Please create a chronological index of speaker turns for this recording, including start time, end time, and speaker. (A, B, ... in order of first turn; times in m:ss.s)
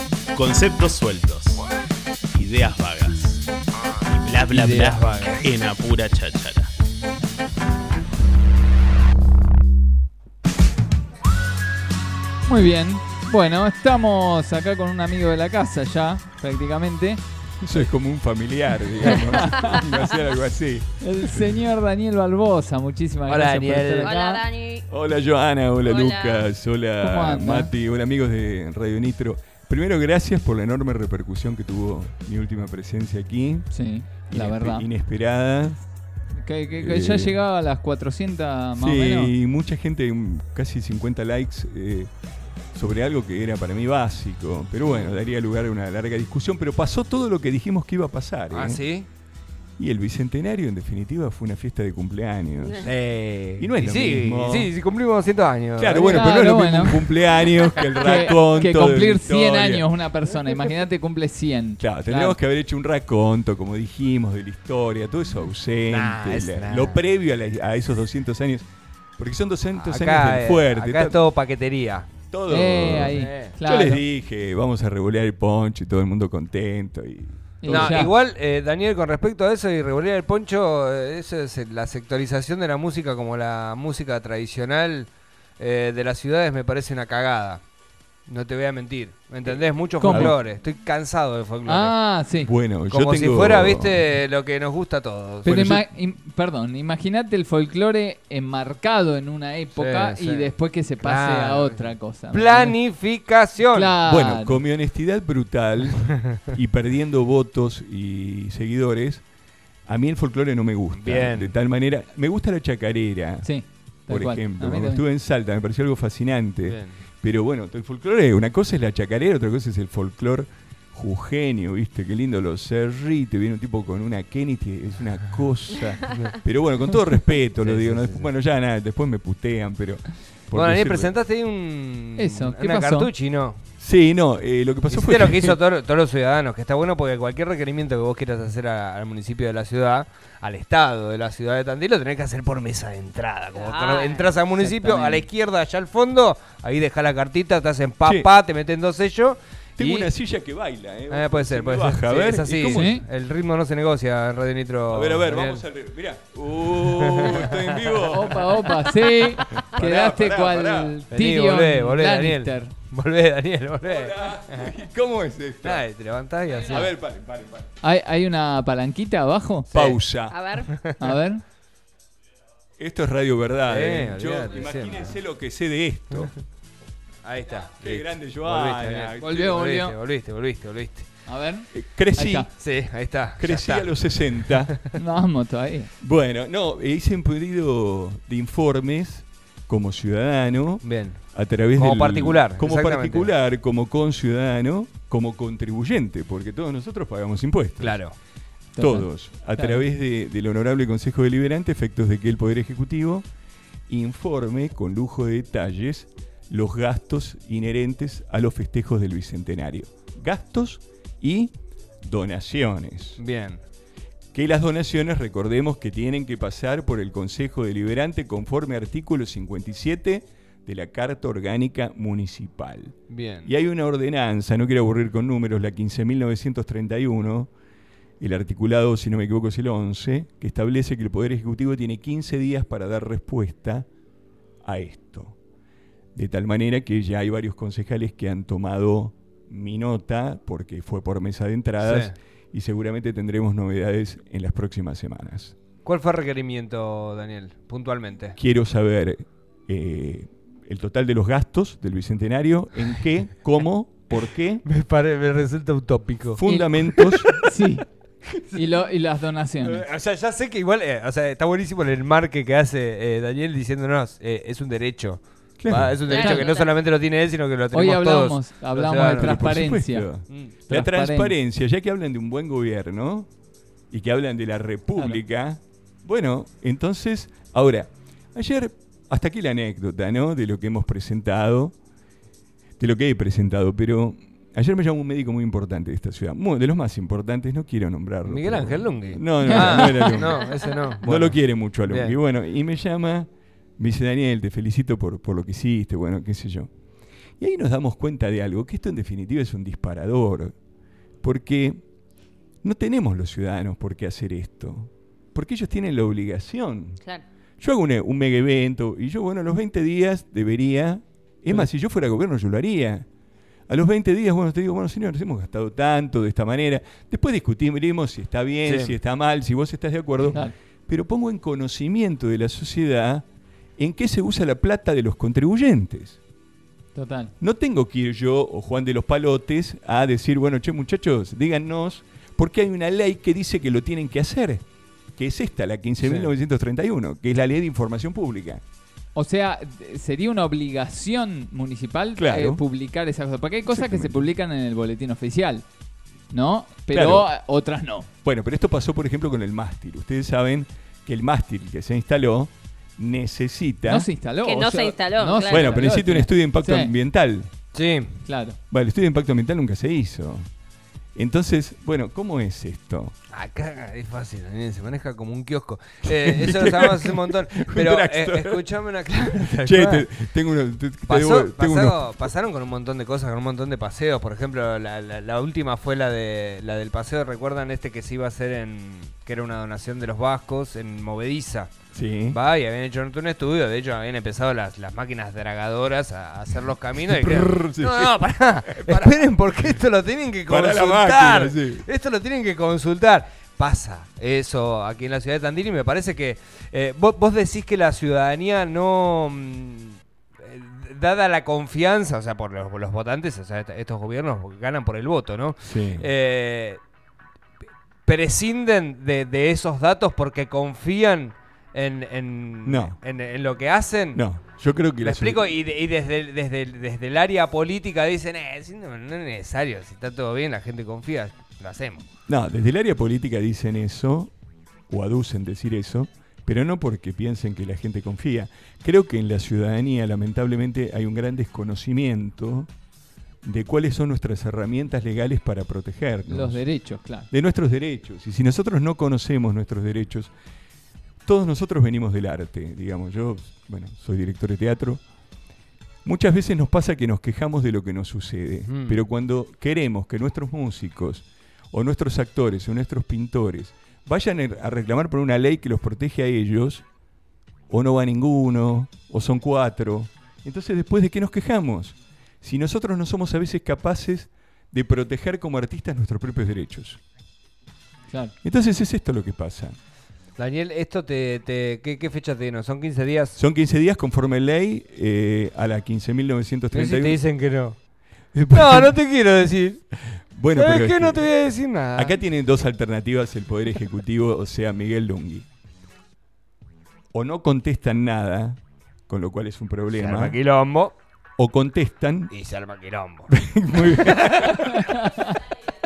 0:00.3-0:01.6 A
0:02.3-0:03.5 A
0:04.1-0:06.7 A
0:04.5-0:05.4 B
0:12.5-0:17.2 B
0:17.6-0:21.6 C
0:19.1-0:19.8 B
0:21.0-0:24.4 B
0:23.3-0:24.2 D
0:24.0-0:24.9 E
0:24.9-0:33.7 C
0:25.8-0:26.5 E
0:27.0-0:27.7 B
0:33.7-0:34.9 B
0:34.3-0:35.8 C
0:36.3-0:39.3 B
0:36.7-0:37.4 C
0:38.8-0:42.1 C
0:42.7-0:48.8 C
0:44.8-0:45.2 D
0:48.5-0:49.1 D
0:49.8-0:52.9 C
0:52.8-0:56.4 D
0:53.6-0:54.7 C
0:55.8-0:59.9 C
0:56.0-0:57.0 B
0:58.0-1:02.4 B
1:01.8-1:08.7 C
1:05.9-1:07.0 D
1:09.2-1:11.2 C
1:09.7-1:12.1 D
1:12.3-1:18.1 C
1:12.5-1:14.0 B
1:13.1-1:13.6 D
1:17.6-1:18.1 B
1:17.7-1:27.6 D
1:28.3-1:32.0 D
1:29.4-1:30.3 C
1:30.0-1:30.4 B
1:31.6-1:32.5 B
1:32.4-1:34.1 C
1:32.9-1:35.5 D
1:35.4-1:42.8 B
1:35.4-1:35.9 C
1:39.7-1:44.0 D
1:43.7-1:44.6 B
1:44.0-1:49.2 C
1:49.9-1:53.5 C
1:50.9-1:51.5 D
1:53.4-1:55.0 B
1:54.1-2:11.1 C
1:56.6-1:57.0 D
2:06.1-2:06.4 D
2:07.6-2:08.3 D
2:10.5-2:13.6 D
2:12.2-2:13.1 B
2:13.8-2:15.6 C
2:14.9-2:30.1 D
2:23.5-2:24.3 E
2:24.6-2:25.2 B
2:29.8-2:32.9 C
2:31.1-2:35.6 D
2:32.7-2:33.0 B
2:34.9-2:41.0 C
2:36.7-2:38.0 D
2:38.0-2:42.7 B
2:41.1-2:44.8 D
2:43.8-2:45.8 C
2:45.6-2:47.0 D
2:46.6-2:47.7 C
2:47.8-2:49.7 B
2:49.7-2:50.1 D
2:49.7-2:50.4 C
2:50.3-2:50.7 E
2:50.7-2:51.0 D
2:51.0-2:51.4 B
2:52.8-2:56.3 C
2:53.6-2:55.2 D
2:57.2-3:01.1 D
2:57.8-2:59.5 C
2:59.2-3:00.0 B
3:01.2-3:02.5 B
3:01.7-3:02.5 C
3:02.6-3:04.9 D
3:03.4-3:04.8 C
3:04.9-3:05.9 B
3:06.0-3:18.0 C
3:10.8-3:11.2 D
3:11.8-3:13.3 D
3:17.8-3:18.1 D
3:18.7-3:19.8 B
3:18.8-3:23.2 C
3:23.9-3:31.5 C
3:32.0-3:33.2 C
3:33.2-3:33.6 D
3:34.3-3:47.5 C
3:43.1-3:43.5 D
3:48.2-3:53.9 C
3:54.6-3:55.4 C
3:56.1-4:05.6 C
4:01.8-4:02.2 D
4:05.8-4:08.4 D
4:08.4-4:14.6 C
4:14.2-4:16.4 D
4:16.4-4:17.3 C
4:16.4-4:16.8 B
4:17.0-4:17.4 D
4:17.3-4:17.9 B
4:18.5-4:19.8 B
4:19.6-4:29.6 D
4:25.6-4:26.0 C
4:26.1-4:26.7 E
4:26.1-4:26.5 B
4:27.7-4:30.1 B
4:29.0-4:33.3 C
4:30.7-4:31.4 B
4:33.9-4:41.7 C
4:42.8-4:56.7 C
4:48.2-4:52.2 D
4:49.4-4:50.2 B
4:57.4-5:00.5 C
5:01.2-5:01.8 C
5:02.6-5:07.0 C
5:07.6-5:13.0 C
5:13.7-5:23.2 C
5:18.6-5:19.0 D
5:20.2-5:20.5 B
5:23.8-5:26.2 C
5:26.9-5:27.3 B
5:27.4-5:34.6 C
5:35.2-5:38.6 C
5:36.0-5:36.3 D
5:39.1-5:45.6 B
5:42.2-5:42.6 C
5:43.7-5:44.3 C
5:46.3-5:48.1 B
5:46.9-5:47.3 C
5:48.2-5:54.1 C
5:53.8-5:56.9 B
5:54.4-5:55.8 E
5:55.5-5:57.5 C
5:57.7-5:58.2 D
5:58.2-5:58.6 B
5:58.7-6:00.5 C
6:01.2-6:03.1 C
6:03.3-6:10.1 D
6:06.1-6:08.6 C
6:09.5-6:12.3 C
6:11.1-6:21.7 D
6:21.9-6:22.4 C
6:22.3-6:46.8 D
6:27.1-6:28.1 C
6:28.6-6:29.6 C
6:30.5-6:31.8 C
6:45.6-6:46.1 C
6:48.0-6:54.2 D
6:52.6-6:53.0 C
6:54.1-6:55.5 C
6:55.0-7:02.0 D
7:02.3-7:04.3 C
7:04.9-7:12.7 C
7:13.4-7:16.6 C
7:16.3-7:17.3 B
7:17.3-7:20.3 C
7:21.2-7:25.0 C
7:26.0-7:36.8 C
7:28.7-7:29.0 D
7:37.7-7:47.0 C
7:48.1-7:48.3 B
7:48.4-7:49.8 C
7:50.4-7:53.4 D
7:53.4-7:57.2 C
7:56.7-7:57.8 D
7:58.3-7:59.0 C
7:58.5-7:59.8 D
8:00.3-8:01.3 C
8:00.5-8:02.2 D
8:01.9-8:05.4 C
8:07.1-8:10.4 C
8:09.9-8:11.0 D
8:11.4-8:12.3 C
8:12.3-8:14.5 D
8:13.3-8:15.0 C
8:14.9-8:15.3 B